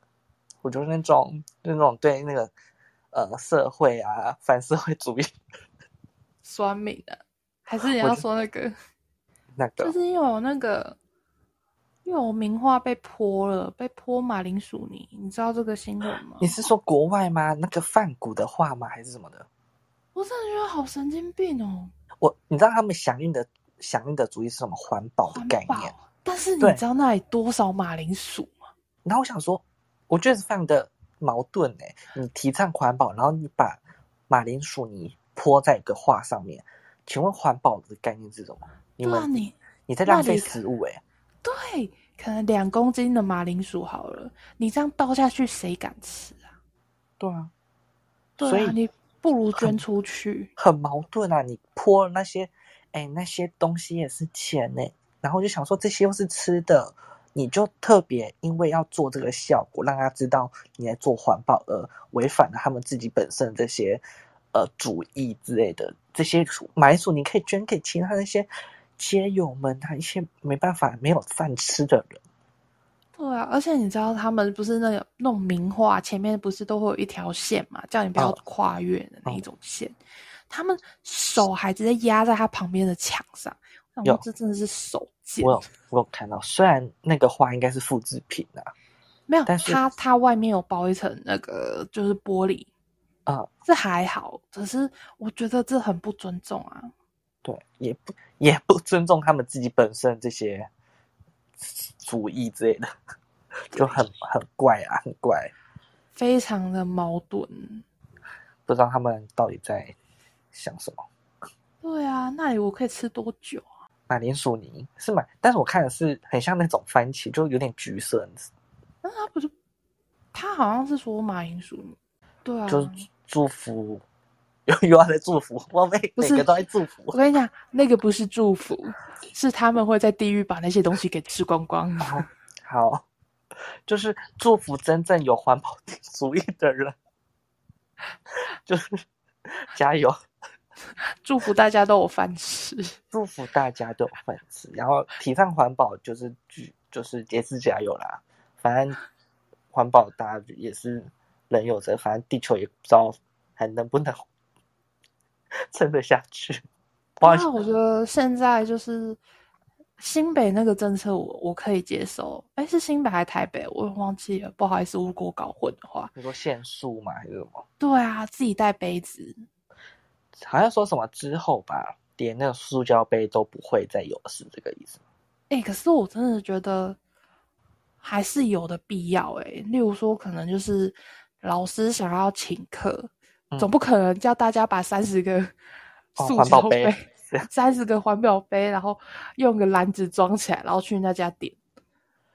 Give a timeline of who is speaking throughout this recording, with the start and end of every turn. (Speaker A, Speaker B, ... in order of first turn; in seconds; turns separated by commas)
Speaker A: 0.6-2.5, Speaker A: 3.1-5.3, Speaker B: 6.4-8.7, Speaker A: 8.0-8.2, Speaker A: 9.5-9.9, Speaker B: 9.8-11.0, Speaker B: 12.0-16.5, Speaker A: 16.4-19.4, Speaker B: 20.1-21.9, Speaker A: 22.2-25.9, Speaker B: 25.3-28.6, Speaker A: 29.0-39.4, Speaker B: 39.0-40.6, Speaker A: 39.9-41.0, Speaker B: 41.4-46.5, Speaker A: 47.2-47.5, Speaker B: 48.4-50.5, Speaker A: 48.4-48.8, Speaker A: 50.6-64.0, Speaker A: 64.5-72.2, Speaker B: 73.2-80.0, Speaker B: 80.5-85.6, Speaker A: 85.4-88.7, Speaker B: 89.3-92.7, Speaker A: 89.5-89.8, Speaker B: 93.6-96.9, Speaker A: 97.4-100.7, Speaker A: 101.6-102.9, Speaker B: 103.7-104.0, Speaker A: 103.7-105.5, Speaker B: 106.1-107.8, Speaker A: 108.7-109.9, Speaker A: 110.5-111.0, Speaker B: 111.8-113.6, Speaker A: 114.1-118.5, Speaker B: 119.0-119.5, Speaker B: 120.3-123.0, Speaker A: 122.7-124.0, Speaker A: 124.7-127.2, Speaker B: 126.2-126.5, Speaker B: 127.1-132.2, Speaker A: 132.0-133.0, Speaker A: 133.9-136.9, Speaker A: 138.5-140.2, Speaker B: 141.2-143.0, Speaker A: 143.1-149.0, Speaker A: 149.7-154.2, Speaker A: 155.7-156.6, Speaker A: 157.2-157.5, Speaker B: 157.2-159.2, Speaker B: 160.0-166.1, Speaker A: 166.1-167.6, Speaker B: 167.8-169.4, Speaker A: 170.4-175.0, Speaker B: 175.5-177.0, Speaker B: 178.0-185.5, Speaker B: 186.2-191.6, Speaker A: 186.2-187.5